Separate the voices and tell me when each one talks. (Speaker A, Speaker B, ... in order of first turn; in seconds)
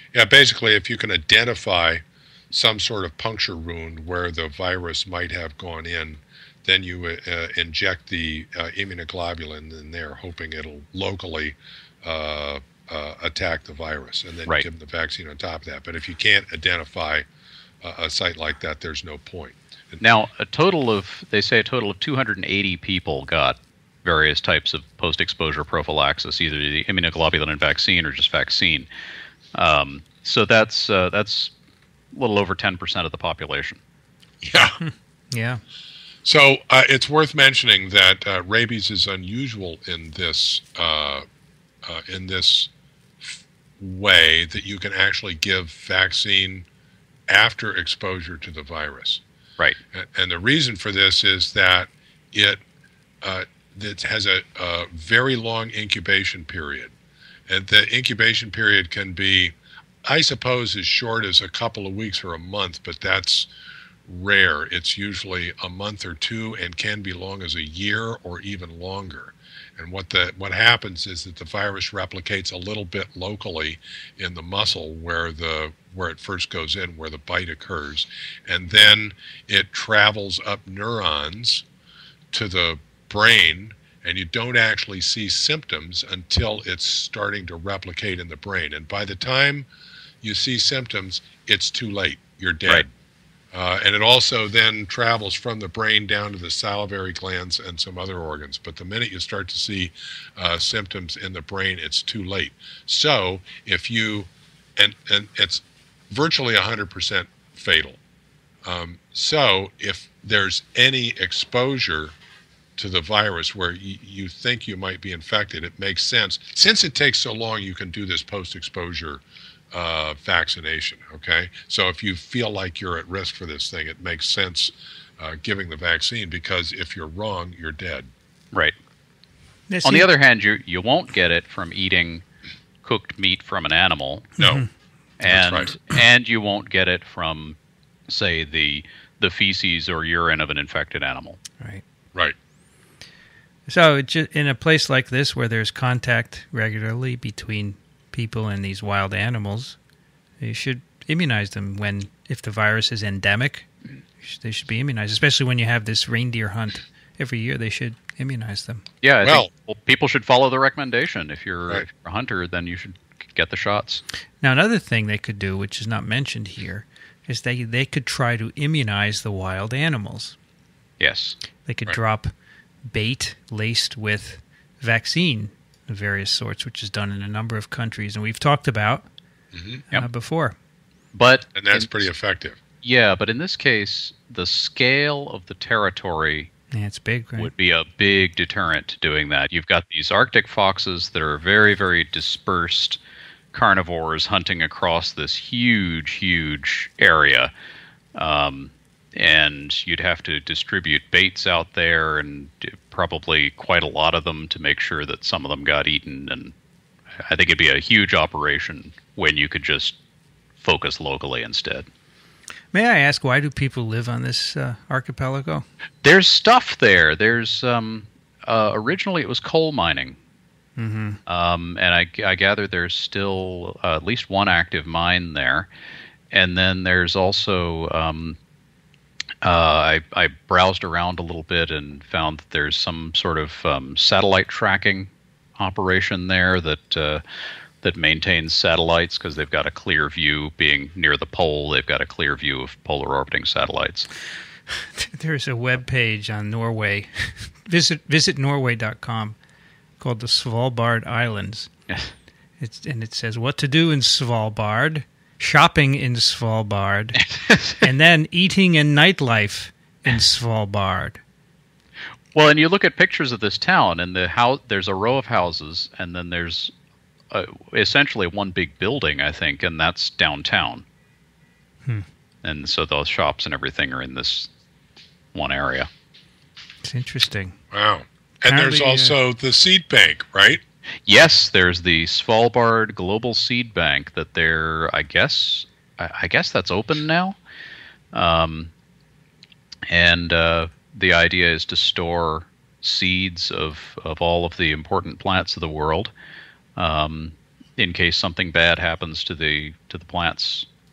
Speaker A: 0.1-17.3, 17.8-20.0, 34.4-34.8, 36.2-41.2, 41.9-42.7, 43.2-46.7, 47.3-49.2, 49.9-52.6, 53.2-56.9, 57.5-63.5, 64.1-81.7, 82.3-89.7, 90.2-92.9, 93.5-108.0, 108.7-112.2, 112.8-128.1, 134.4-134.7, 135.2-135.8, 179.5-179.8, 181.6-182.6, 277.7-280.6
Speaker B: 20.0-28.9, 29.6-31.5, 32.1-33.8, 129.8-132.2, 132.8-134.3, 135.2-137.6, 138.1-141.4, 159.0-164.0, 171.0-171.4, 181.1-182.1, 182.8-186.5, 187.4-193.0, 193.5-197.5, 198.2-206.5, 207.2-210.0, 210.6-211.9, 216.0-220.2, 221.3-225.7, 226.3-228.4, 229.4-237.2, 237.8-244.1, 257.3-257.8, 262.3-266.7, 267.3-270.8, 272.4-274.5, 275.3-275.9, 281.1-287.4, 288.1-288.7, 289.9-296.1, 296.8-300.7
Speaker C: 34.8-35.6, 129.7-130.1, 134.4-134.7, 143.7-149.8, 150.4-153.7, 154.2-158.8, 164.4-170.4, 171.7-172.3, 172.9-179.1, 179.9-180.6, 186.7-187.5, 212.7-215.7, 220.8-221.2, 244.8-249.4, 250.0-251.7, 252.6-257.2, 257.8-261.2, 276.8-277.6, 278.5-279.1